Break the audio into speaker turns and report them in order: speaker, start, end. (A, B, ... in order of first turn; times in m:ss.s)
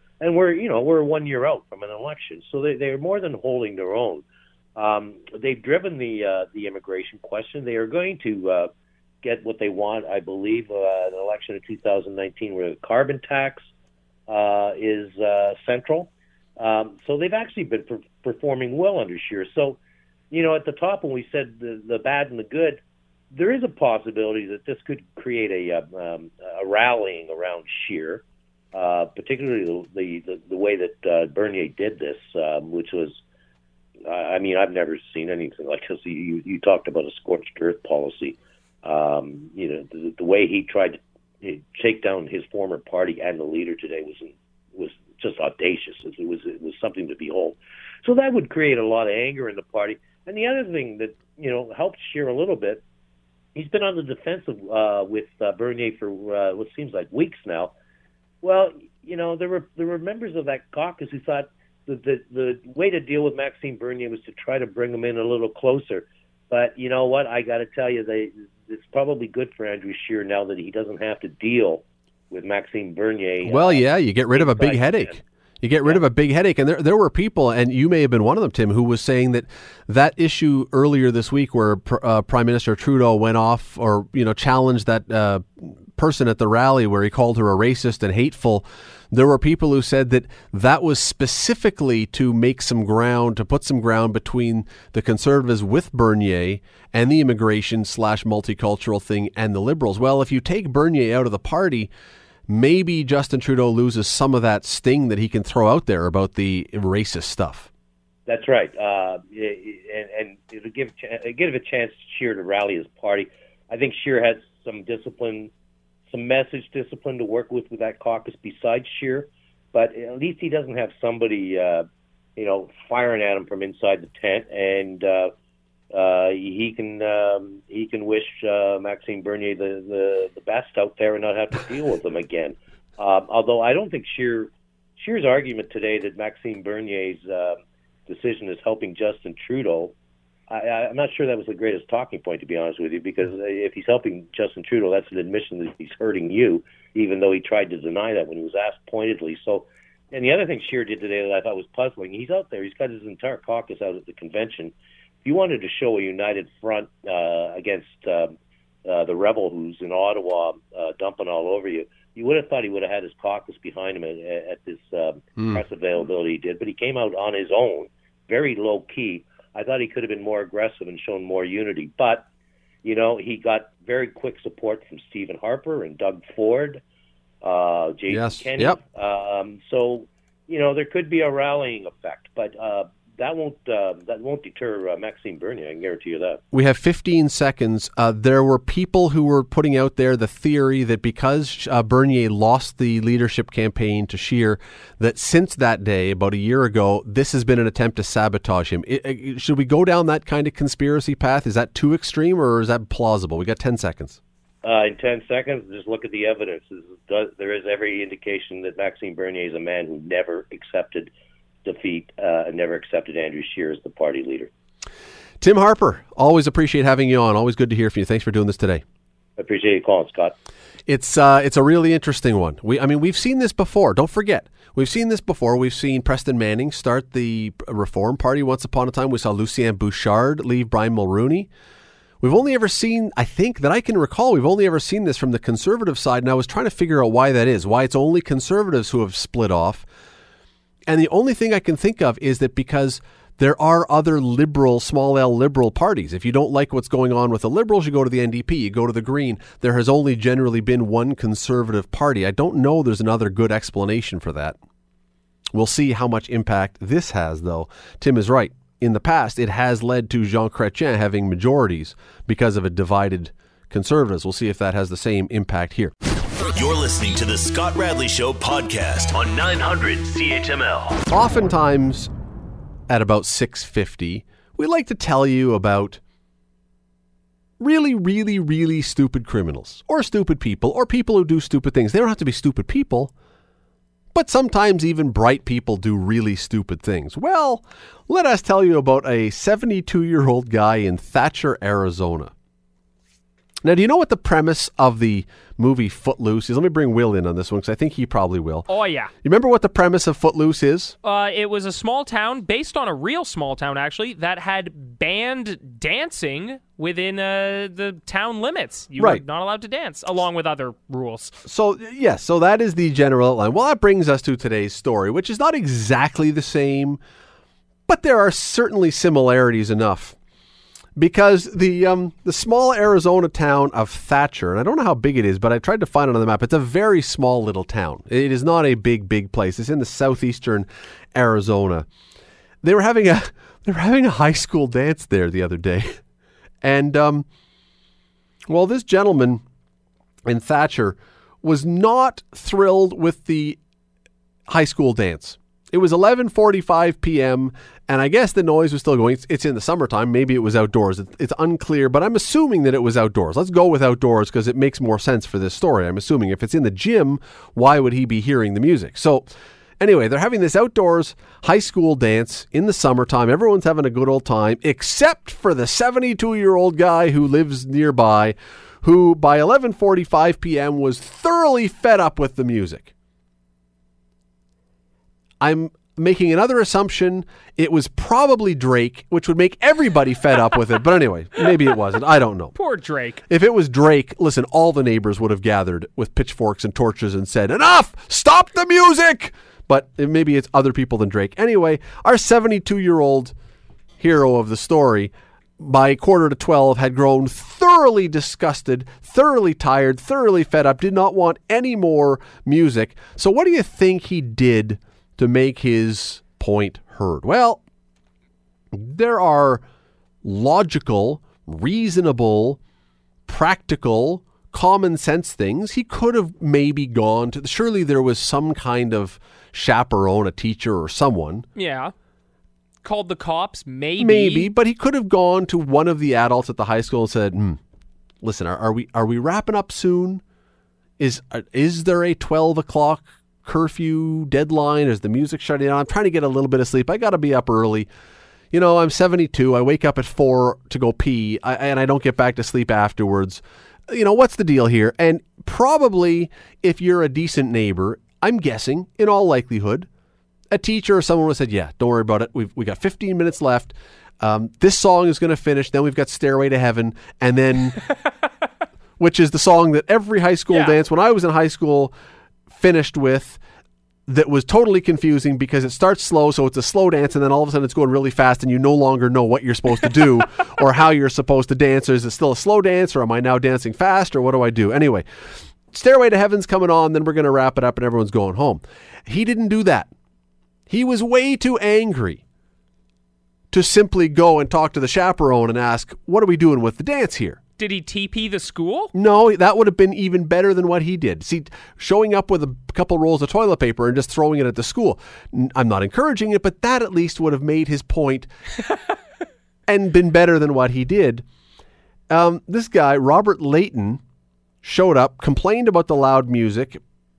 0:00.2-0:04.2 A
0:04.8-0:08.7 A
0:09.2-0:13.7 A
0:14.3-0:19.8 A
0:20.3-0:22.8 A
0:23.3-0:33.2 A
0:34.0-0:52.8 A
0:53.5-0:57.7 A
0:58.4-1:15.2 A
1:13.4-1:41.9 B
1:42.5-1:47.7 B
1:48.3-1:55.5 A
1:56.1-2:01.8 A
2:02.4-2:05.3 A
2:05.9-2:19.9 A
2:20.5-2:52.2 A
2:52.8-2:56.8 A
2:57.4-3:06.4 A
2:58.1-2:58.8 B
3:06.5-3:24.2 B
3:24.6-3:31.1 A
3:31.6-3:34.5 A
3:35.4-3:38.8 B
3:39.4-3:40.3 A
3:40.9-3:51.5 B
3:52.2-3:59.8 B
4:00.9-4:14.6 B
4:15.5-4:25.9 B
4:26.5-4:31.1 C
4:31.1-4:32.1 B
4:32.9-4:36.0 B
4:37.6-4:43.1 B
4:44.1-4:52.3 B
4:53.6-4:58.7 B
4:58.7-4:59.1 D
4:59.2-5:00.9 B
5:01.0-5:11.4 D
5:09.0-5:09.2 B
5:11.4-5:17.0 B
5:17.9-5:20.2 B
5:21.0-5:31.8 B
5:32.6-5:36.0 B
5:36.6-5:37.2 B
5:38.5-5:39.4 B
5:40.2-5:43.6 B
5:44.5-5:59.2 B
5:59.8-6:12.9 B
6:15.4-6:22.5 B
6:22.6-6:23.2 D
6:23.3-6:33.3 B
6:34.0-6:47.6 B
6:48.7-6:49.6 B
6:50.2-6:52.6 B
6:53.3-7:01.4 B
7:01.6-7:01.9 D
7:02.8-7:04.5 D
7:04.0-7:07.6 B
7:08.2-7:10.2 B
7:11.0-7:17.9 B
7:18.5-7:29.9 B
7:30.5-7:37.8 B
7:39.0-7:41.9 B
7:42.5-7:43.4 B
7:44.1-7:59.9 B
8:00.7-8:02.2 B
8:03.5-8:07.4 B
8:07.6-8:08.9 D
8:08.9-8:18.3 B
8:19.7-8:21.2 B
8:22.1-8:24.0 B
8:24.6-8:26.8 B